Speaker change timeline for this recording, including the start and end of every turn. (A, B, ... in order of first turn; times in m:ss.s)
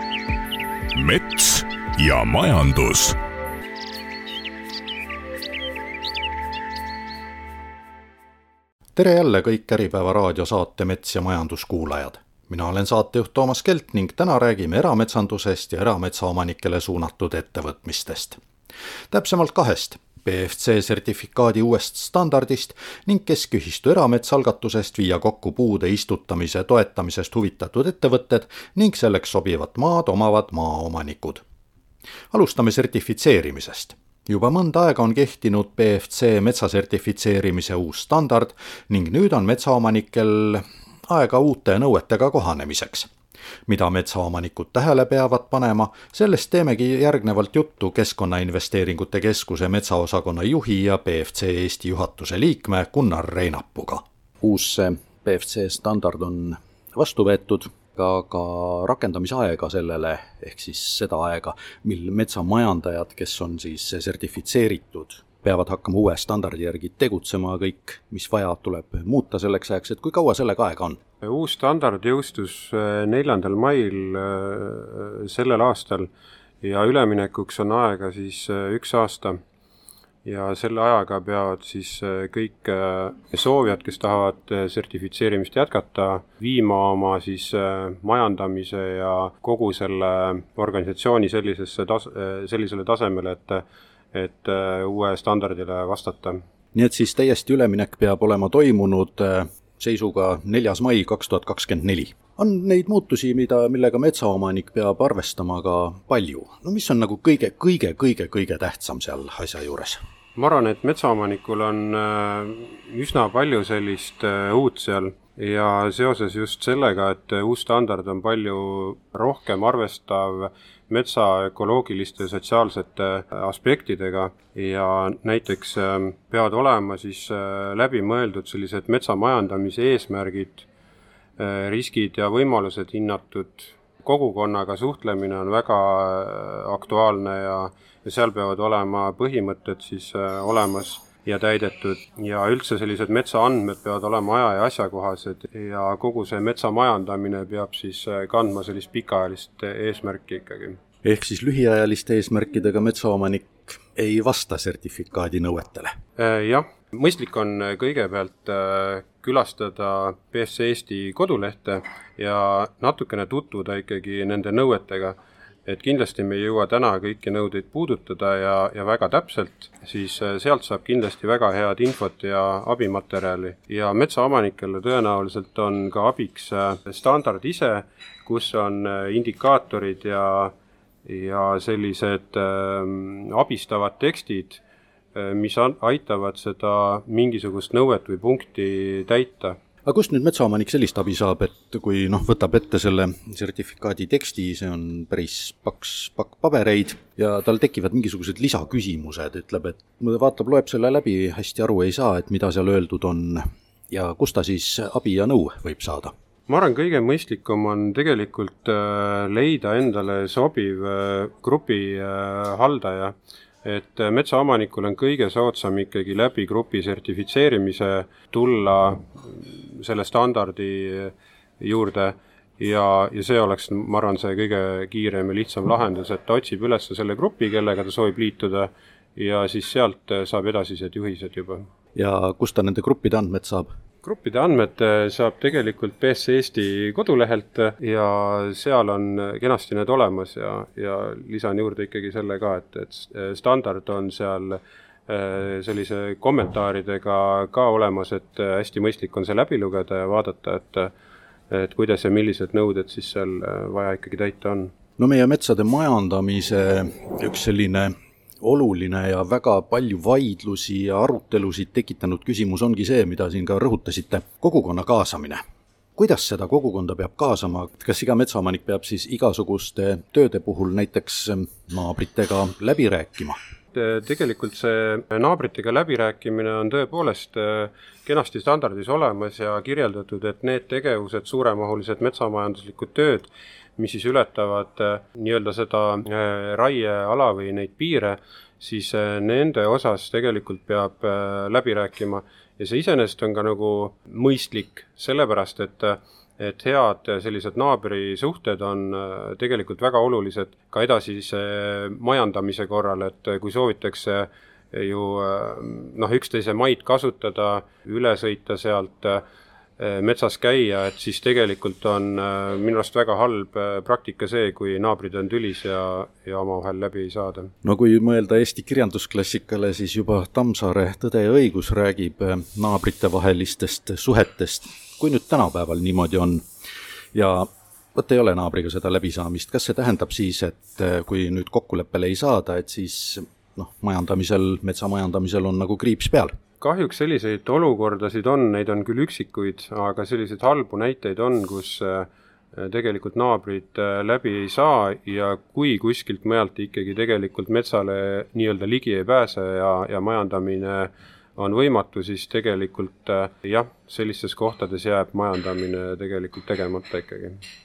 0:00.9-0:03.2 A
0:09.0-0:18.4 B
0:19.1-0:31.4 B
0:32.3-0:43.1 B
0:43.7-1:11.0 B
1:11.2-1:16.1 C
1:16.6-1:19.4 C
1:20.2-1:36.4 C
1:36.7-1:50.0 B
1:50.4-2:10.6 C
2:11.4-2:30.8 C
2:31.0-2:36.0 B
2:36.2-3:00.5 C
3:01.0-3:04.6 C
3:05.1-3:09.6 C
3:09.8-3:26.1 B
3:26.5-3:51.6 C
3:51.9-3:53.7 B
3:54.0-4:10.9 C
4:11.5-4:14.7 C
4:15.0-4:25.4 B
4:26.0-4:33.4 B
4:33.7-5:09.2 C
5:09.8-5:17.5 C
5:17.6-5:26.4 B
5:27.1-5:36.3 B
5:36.6-5:57.4 C